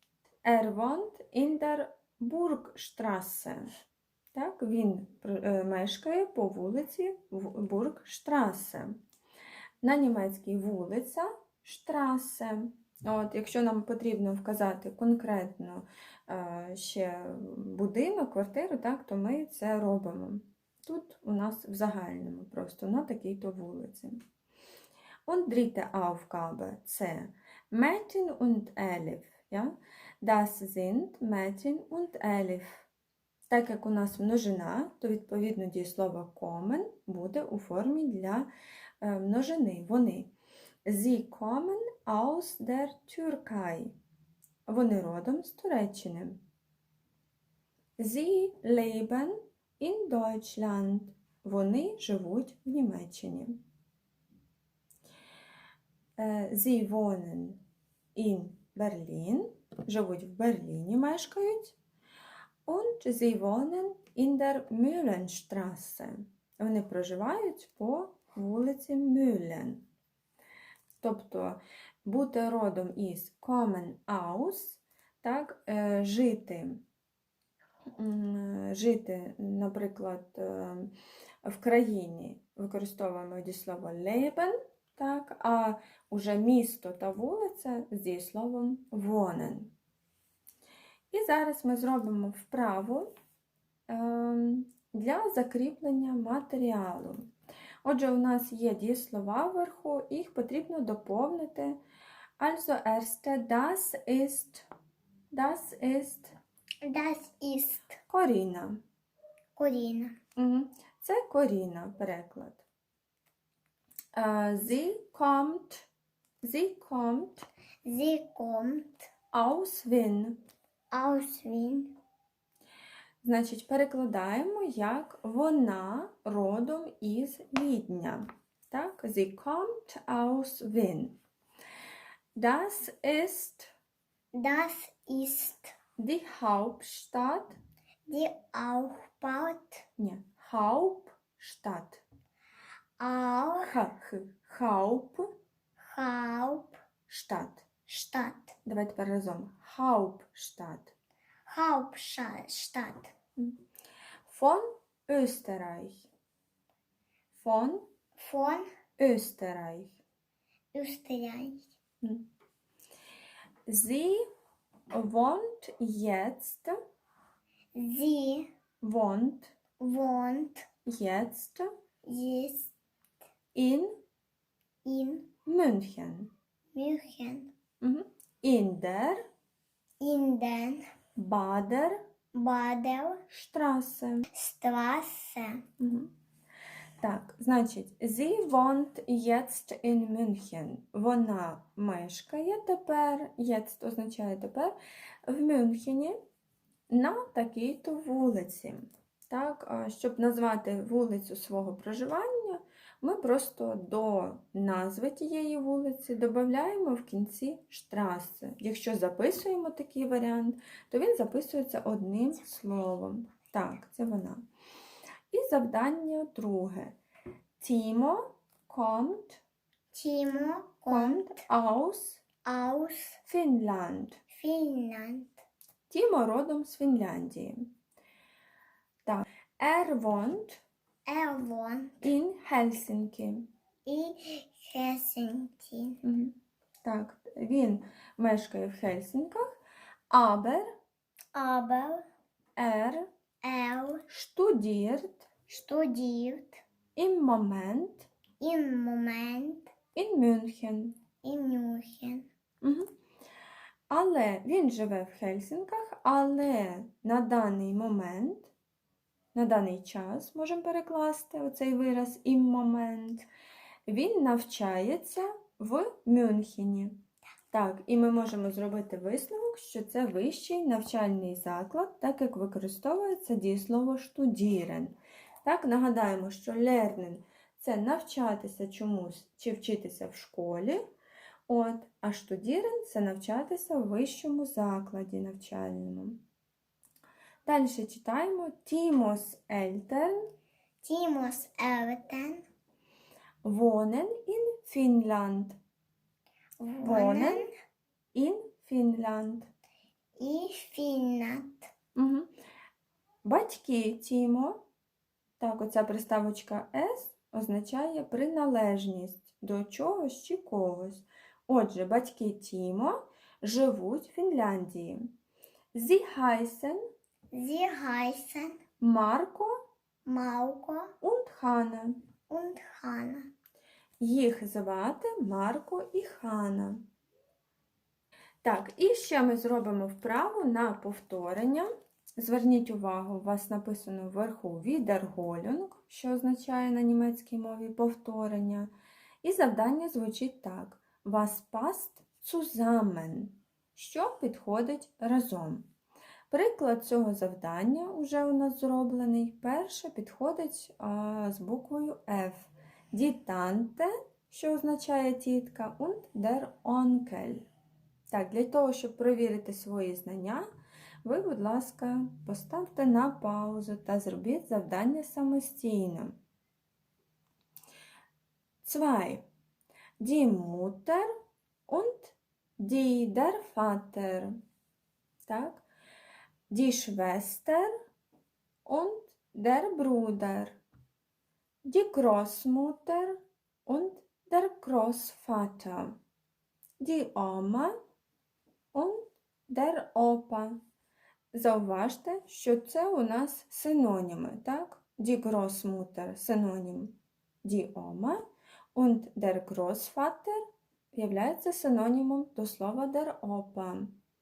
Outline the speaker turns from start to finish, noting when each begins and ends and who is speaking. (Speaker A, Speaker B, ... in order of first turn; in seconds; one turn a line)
Speaker A: 0.4-3.7
Speaker A: 4.3-9.0
Speaker A: 9.8-24.2
Speaker A: 25.3-32.9
Speaker A: 33.5-38.5
Speaker A: 39.0-40.3
Speaker A: 40.9-43.9
Speaker A: 44.7-46.4
Speaker A: 48.0-53.6
Speaker A: 56.2-57.6
Speaker A: 58.1-61.8
Speaker A: 62.7-69.8
Speaker A: 71.0-76.8
Speaker A: 78.0-80.9
Speaker A: 81.5-89.7
Speaker A: 91.1-93.1
Speaker A: 93.9-97.2
Speaker A: 97.8-101.8
Speaker A: 102.4-104.7
Speaker A: 105.3-106.3
Speaker B: 106.8-107.9
Speaker A: 108.1-108.8
Speaker B: 109.6-110.2
Speaker A: 110.4-112.7
Speaker A: 114.2-115.9
Speaker A: 116.4-117.5
Speaker B: 117.8-119.0
Speaker A: 119.3-120.4
Speaker B: 120.9-122.0
Speaker A: 123.2-131.2
Speaker A: 132.4-133.7
Speaker B: 134.3-135.7
Speaker A: 136.0-137.6
Speaker B: 138.1-139.8
Speaker A: 140.0-142.0
Speaker B: 143.0-143.7
Speaker A: 143.6-145.3
Speaker B: 145.8-146.8
Speaker A: 147.1-147.7
Speaker B: 147.9-148.6
Speaker A: 148.7-150.9
Speaker B: 151.5-153.1
Speaker A: 154.3-156.1
Speaker A: 157.3-157.9
Speaker B: 158.2-158.7
Speaker A: 159.0-160.0
Speaker B: 160.7-161.7
Speaker A: 163.7-164.2
Speaker A: 164.9-166.8
Speaker B: 167.8-168.5
Speaker A: 168.8-169.6
Speaker B: 169.8-170.7
Speaker A: 170.9-171.7
Speaker B: 172.1-172.7
Speaker A: 173.5-173.9
Speaker B: 174.8-175.3
Speaker A: 175.5-176.3
Speaker B: 176.7-177.5
Speaker A: 177.8-179.2
Speaker B: 180.0-180.8
Speaker A: 181.2-182.0
Speaker B: 182.3-183.2
Speaker A: 183.3-184.3
Speaker B: 184.3-185.6
Speaker A: 185.8-186.1
Speaker A: 187.0-194.8
Speaker A: 195.3-196.2
Speaker A: 196.9-214.4
Speaker A: 215.3-217.0
Speaker A: 217.6-219.4
Speaker B: 219.9-221.4
Speaker A: 220.9-222.2
Speaker B: 222.4-223.2
Speaker A: 223.2-224.2
Speaker B: 224.3-225.4
Speaker A: 225.9-227.7
Speaker A: 229.1-230.6
Speaker B: 231.1-232.1
Speaker A: 232.0-233.5
Speaker B: 233.9-236.0
Speaker A: 236.0-239.5
Speaker A: 240.1-240.7
Speaker B: 241.3-242.0
Speaker A: 242.6-243.1
Speaker B: 243.4-244.0
Speaker A: 244.1-245.3
Speaker B: 245.5-246.6
Speaker A: 247.0-248.1
Speaker B: 248.4-249.7
Speaker A: 249.9-251.0
Speaker B: 251.2-252.3
Speaker A: 252.6-252.9
Speaker A: 253.9-258.5
Speaker A: 259.4-263.2
Speaker A: 263.9-267.0
Speaker A: 267.5-280.8
Speaker A: 281.5-286.2
Speaker A: 287.5-290.3
Speaker B: 290.8-292.4
Speaker A: 293.4-295.6
Speaker B: 296.6-297.5
Speaker A: 296.8-297.5
Speaker A: 298.1-299.5
Speaker B: 300.2-301.7
Speaker A: 301.9-302.3
Speaker A: 303.2-304.6
Speaker A: 305.4-315.1
Speaker A: 315.7-316.8
Speaker B: 317.3-318.6
Speaker A: 318.8-319.5
Speaker B: 320.1-320.9
Speaker A: 321.0-322.0
Speaker B: 322.3-323.3
Speaker A: 324.0-326.8
Speaker A: 328.4-338.7
Speaker A: 339.2-345.7
Speaker A: 346.3-357.4
Speaker A: 358.1-360.5
Speaker A: 361.0-366.2
Speaker A: 368.6-369.2
Speaker A: 370.0-371.1
Speaker A: 371.7-374.4
Speaker A: 375.2-375.6
Speaker A: 376.5-377.7
Speaker A: 378.6-380.6
Speaker A: 381.6-386.0
Speaker A: 386.8-387.7
Speaker A: 388.7-390.6
Speaker A: 391.3-398.2
Speaker A: 398.8-404.0